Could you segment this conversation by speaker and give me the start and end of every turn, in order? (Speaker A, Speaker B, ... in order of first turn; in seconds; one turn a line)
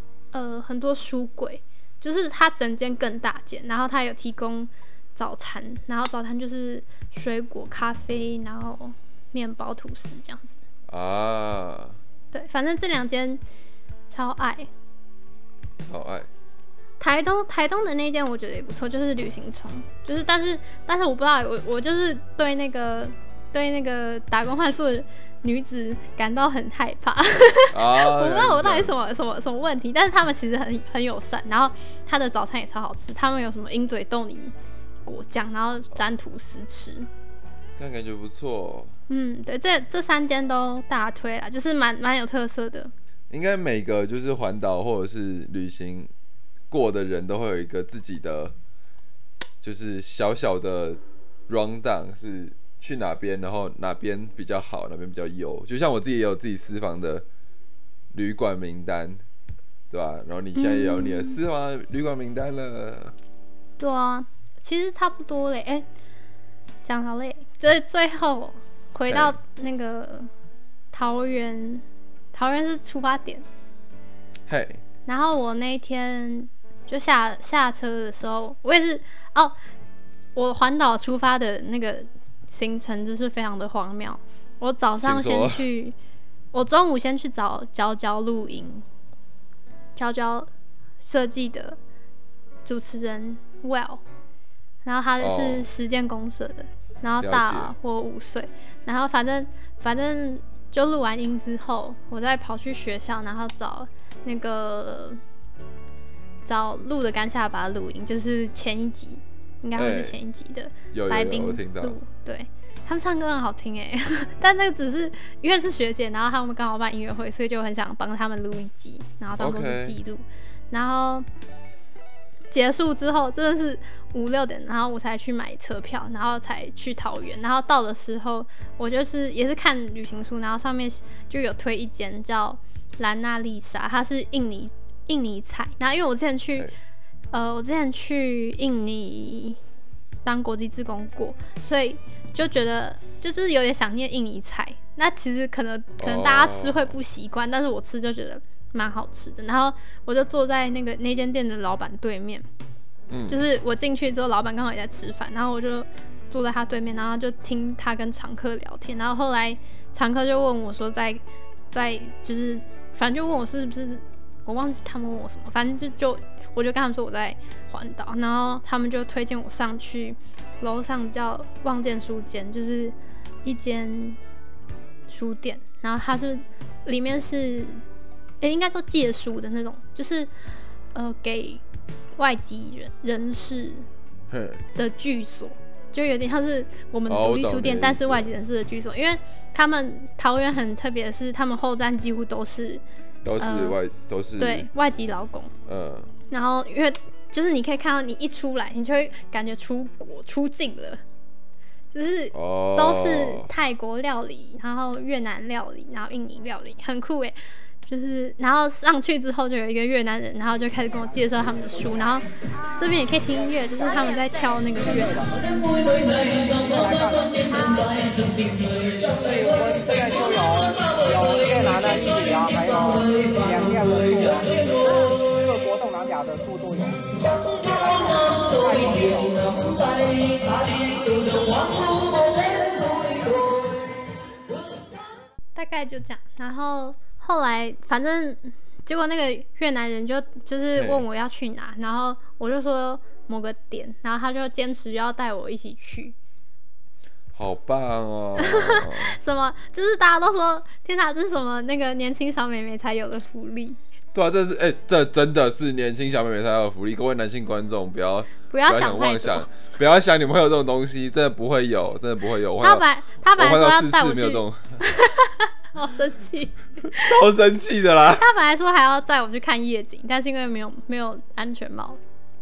Speaker A: 0.3-10.6
Speaker B: 10.9-12.0
Speaker A: 12.3-13.4
Speaker A: 14.1-14.7
Speaker B: 15.8-16.3
Speaker A: 17.0-34.5
Speaker B: 27.7-28.9
Speaker A: 35.0-37.1
Speaker B: 37.8-38.9
Speaker A: 39.1-42.9
Speaker B: 43.3-46.1
Speaker B: 46.7-48.5
Speaker B: 49.6-57.2
Speaker B: 58.1-59.2
Speaker B: 59.9-63.1
Speaker A: 60.5-61.4
Speaker A: 63.8-65.8
Speaker A: 66.8-70.3
Speaker B: 69.1-69.4
Speaker A: 70.9-73.4
Speaker B: 74.5-74.8
Speaker A: 75.0-79.5
Speaker A: 80.3-86.0
Speaker B: 85.0-85.6
Speaker A: 86.5-88.8
Speaker A: 90.0-90.5
Speaker A: 91.0-91.8
Speaker A: 92.6-94.0
Speaker A: 94.8-105.2
Speaker B: 95.2-95.7
Speaker B: 97.2-97.7
Speaker A: 106.4-121.3
Speaker B: 109.7-110.2
Speaker B: 110.9-112.0
Speaker B: 119.4-120.0
Speaker A: 122.5-136.7
Speaker A: 137.3-139.6
Speaker A: 140.2-152.4
Speaker B: 146.0-146.9
Speaker B: 153.1-153.4
Speaker A: 153.3-174.2
Speaker A: 175.1-177.8
Speaker A: 178.4-180.3
Speaker A: 180.9-181.6
Speaker A: 182.2-183.8
Speaker B: 184.3-184.6
Speaker A: 184.7-192.8
Speaker B: 187.1-188.3
Speaker B: 193.2-194.7
Speaker A: 193.4-193.8
Speaker A: 194.4-195.5
Speaker B: 195.7-196.1
Speaker A: 196.3-201.0
Speaker A: 201.9-212.2
Speaker B: 202.3-203.5
Speaker C: 211.4-212.0
Speaker A: 212.8-215.3
Speaker C: 214.8-233.4
Speaker A: 235.5-246.1
Speaker B: 240.7-241.0
Speaker B: 247.3-249.2
Speaker A: 248.4-253.8
Speaker B: 254.1-264.8
Speaker A: 258.5-259.5
Speaker A: 262.6-267.2
Speaker B: 266.9-268.2
Speaker A: 268.1-272.0